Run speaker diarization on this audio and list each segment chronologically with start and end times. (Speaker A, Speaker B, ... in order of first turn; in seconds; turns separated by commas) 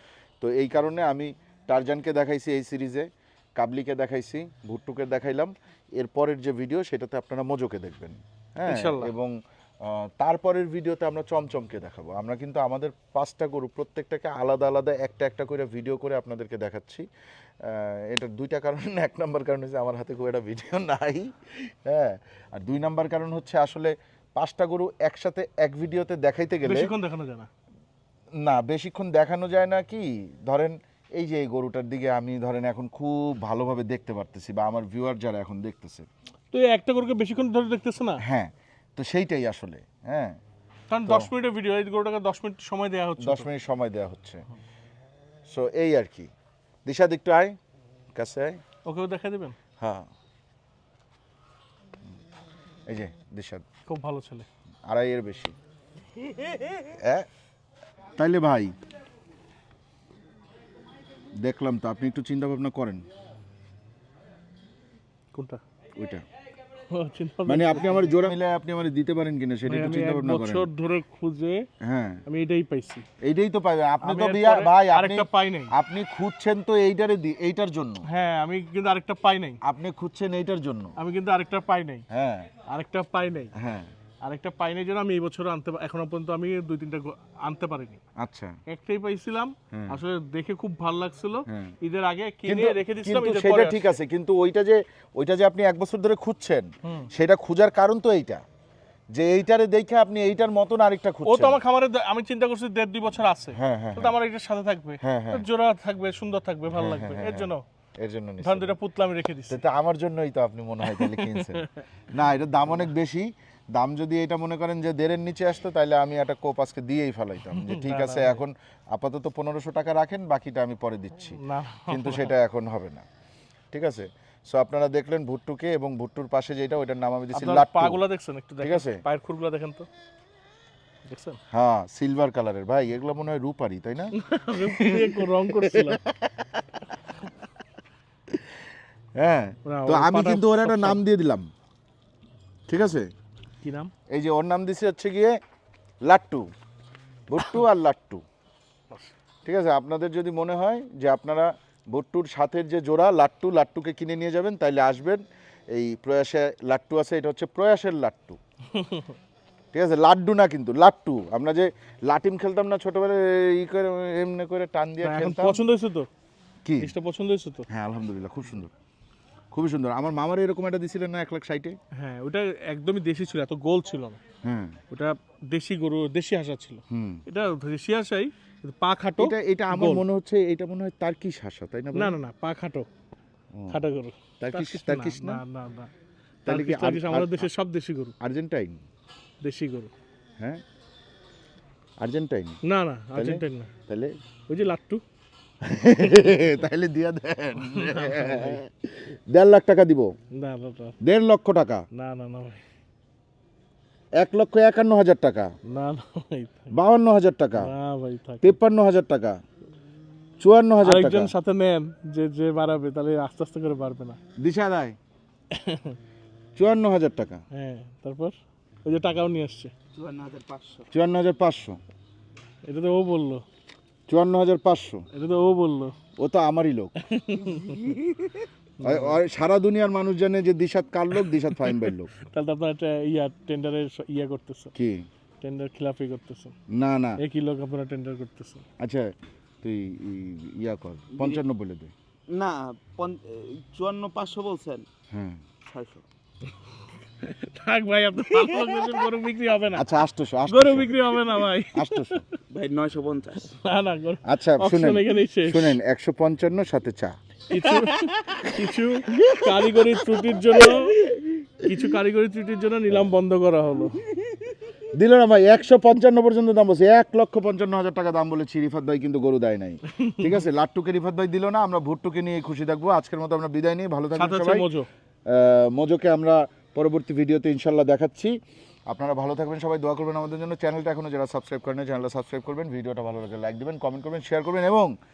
Speaker A: 0.4-17.1, Speaker B: 8.7-9.1, Speaker A: 17.6-26.9, Speaker B: 26.6-27.5, Speaker A: 28.4-36.1, Speaker B: 36.5-38.2, Speaker A: 38.2-40.4, Speaker B: 40.9-43.5, Speaker A: 41.0-41.3, Speaker A: 43.2-44.4, Speaker A: 45.5-46.3, Speaker A: 46.9-47.6, Speaker A: 48.1-48.6, Speaker B: 48.9-49.6, Speaker A: 49.8-50.1, Speaker A: 52.9-53.6, Speaker B: 53.9-54.5, Speaker A: 54.9-55.5, Speaker A: 56.8-57.3, Speaker A: 58.2-58.7, Speaker A: 61.4-63.0, Speaker B: 65.3-65.6, Speaker A: 66.0-66.2, Speaker B: 66.9-68.3, Speaker A: 67.5-70.7, Speaker B: 69.7-71.7, Speaker A: 71.8-72.2, Speaker B: 72.3-73.0, Speaker A: 73.2-78.1, Speaker B: 74.0-75.7, Speaker B: 78.1-79.6, Speaker A: 79.6-81.0, Speaker B: 81.0-82.0, Speaker A: 82.1-82.5, Speaker B: 82.7-83.5, Speaker A: 83.6-83.9, Speaker B: 84.2-88.0, Speaker A: 88.2-88.6, Speaker B: 88.7-94.0, Speaker A: 89.7-90.0, Speaker A: 91.5-91.8, Speaker A: 92.5-98.4, Speaker B: 96.8-97.1, Speaker A: 99.1-101.6, Speaker B: 101.2-107.6, Speaker A: 103.5-104.2, Speaker A: 105.0-105.5, Speaker A: 106.7-108.8, Speaker B: 108.4-109.6, Speaker A: 109.5-123.1, Speaker B: 110.8-111.8, Speaker B: 117.5-118.4, Speaker B: 121.4-122.4, Speaker A: 123.7-128.0, Speaker B: 127.3-129.9, Speaker A: 128.6-129.0, Speaker B: 131.1-131.4, Speaker A: 131.5-136.5, Speaker B: 134.2-136.0, Speaker A: 139.2-141.5, Speaker B: 139.7-141.0, Speaker A: 142.7-143.1, Speaker B: 143.6-143.9, Speaker A: 144.1-145.4, Speaker A: 146.0-146.5, Speaker A: 147.3-148.2, Speaker A: 149.4-158.4, Speaker B: 158.7-159.1, Speaker A: 159.7-165.6, Speaker B: 165.0-166.1, Speaker A: 166.7-166.9, Speaker B: 166.8-167.7, Speaker A: 167.7-168.7, Speaker A: 169.5-171.8, Speaker B: 171.9-174.2, Speaker A: 174.4-174.8, Speaker B: 174.9-180.1, Speaker A: 176.9-177.2, Speaker A: 179.2-182.2, Speaker B: 181.9-182.9, Speaker A: 183.5-183.8, Speaker B: 183.7-185.9, Speaker A: 184.4-185.4, Speaker B: 186.4-188.1, Speaker A: 186.5-187.5, Speaker A: 188.2-188.8, Speaker B: 189.4-189.9, Speaker A: 192.0-192.6, Speaker B: 192.6-193.7, Speaker A: 193.2-194.2, Speaker B: 194.5-195.0, Speaker A: 195.6-200.1, Speaker B: 197.6-198.6, Speaker B: 200.3-201.0, Speaker A: 201.0-201.8, Speaker B: 201.9-202.6, Speaker A: 204.2-205.6, Speaker B: 205.7-206.7, Speaker A: 206.7-207.7, Speaker B: 207.6-208.6, Speaker A: 208.4-209.4, Speaker A: 210.4-211.3, Speaker B: 210.8-214.2, Speaker A: 214.4-215.0, Speaker B: 215.5-216.0, Speaker A: 216.6-217.4, Speaker B: 217.5-218.3, Speaker B: 218.9-219.7, Speaker C: 219.9-220.9, Speaker A: 220.9-221.8, Speaker B: 222.7-223.4, Speaker A: 224.1-225.1, Speaker B: 225.1-225.9, Speaker A: 226.2-226.9, Speaker B: 227.0-228.0, Speaker C: 227.5-228.4, Speaker B: 228.8-229.2, Speaker A: 228.8-232.1, Speaker B: 231.2-234.7, Speaker A: 234.8-235.1, Speaker B: 235.4-236.6, Speaker A: 236.7-237.2, Speaker B: 237.2-238.7, Speaker A: 238.8-241.9, Speaker C: 241.1-241.4, Speaker C: 242.3-244.9, Speaker A: 245.1-245.4, Speaker C: 245.6-246.1, Speaker B: 247.2-249.9, Speaker A: 249.7-252.2, Speaker B: 250.5-252.3, Speaker C: 252.5-253.6, Speaker B: 253.7-255.8, Speaker A: 254.2-257.2, Speaker B: 257.5-264.0, Speaker A: 264.9-274.7, Speaker B: 270.0-270.4, Speaker B: 274.1-274.9, Speaker A: 275.3-278.4, Speaker A: 278.9-284.9